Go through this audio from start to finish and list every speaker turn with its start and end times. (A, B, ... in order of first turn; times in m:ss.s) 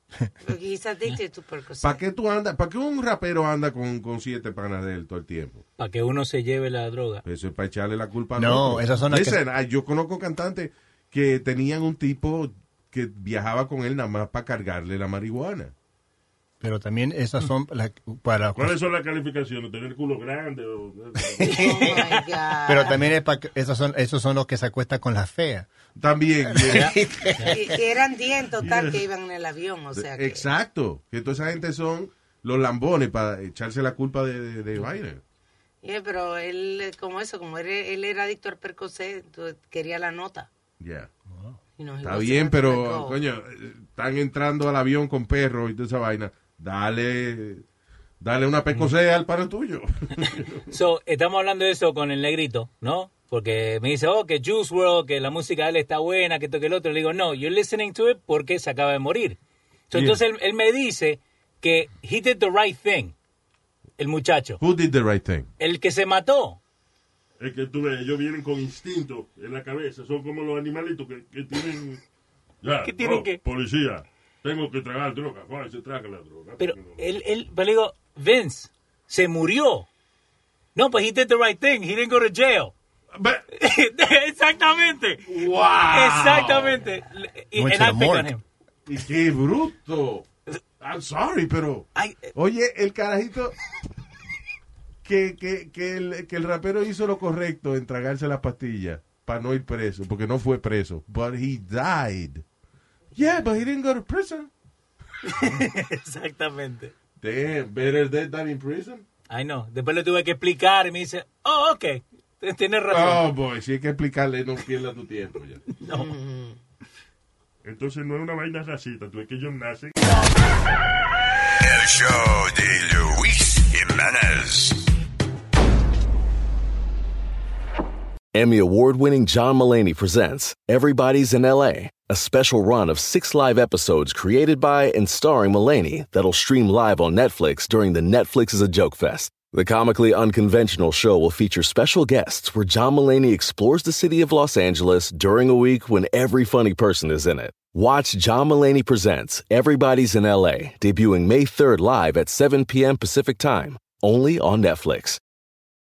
0:00.4-0:02.0 A
0:01.8-0:05.6 B
0:05.8-0:07.2 C
0:07.2-0:15.7 B
0:08.3-0:09.4 D
0:16.6-0:18.8 D
0:18.6-0:21.9 E
0:21.4-0:22.1 D
0:21.4-0:23.0 A
0:22.6-0:25.7 D
0:26.0-0:27.1 B
0:26.5-0:27.6 D
0:26.7-0:27.5 C
0:27.4-0:30.4 A
0:29.9-0:35.2 B
0:35.8-0:40.5 A
0:40.8-0:41.1 B
0:41.3-0:41.6 D
0:41.8-0:43.2 A
0:42.0-0:47.6 B
0:48.2-0:50.6 B
0:50.7-0:59.4 C
0:59.9-1:03.1 C
0:59.9-1:00.2 B
1:04.0-1:04.6 C
1:04.6-1:05.5 B
1:05.6-1:06.6 C
1:07.4-1:12.0 E
1:12.6-1:17.0 E
1:12.8-1:13.4 C
1:16.6-1:19.9 C
1:20.7-1:22.7 C
1:23.1-1:23.4 B
1:23.6-1:25.3 C
1:25.2-1:26.9 B
1:25.9-1:28.4 C
1:27.5-1:28.3 D
1:28.8-1:30.2 B
1:30.8-1:33.6 B
1:32.0-1:32.3 C
1:35.0-1:42.4 B
1:43.1-1:44.5 B
1:45.2-1:46.9 C
1:47.2-1:49.0 B
1:49.3-1:53.3 C
1:52.9-1:55.6 B
1:55.8-1:56.1 C
1:55.8-1:56.6 A
1:57.6-1:59.9 E
2:01.6-2:04.9 F
2:08.3-2:35.2 G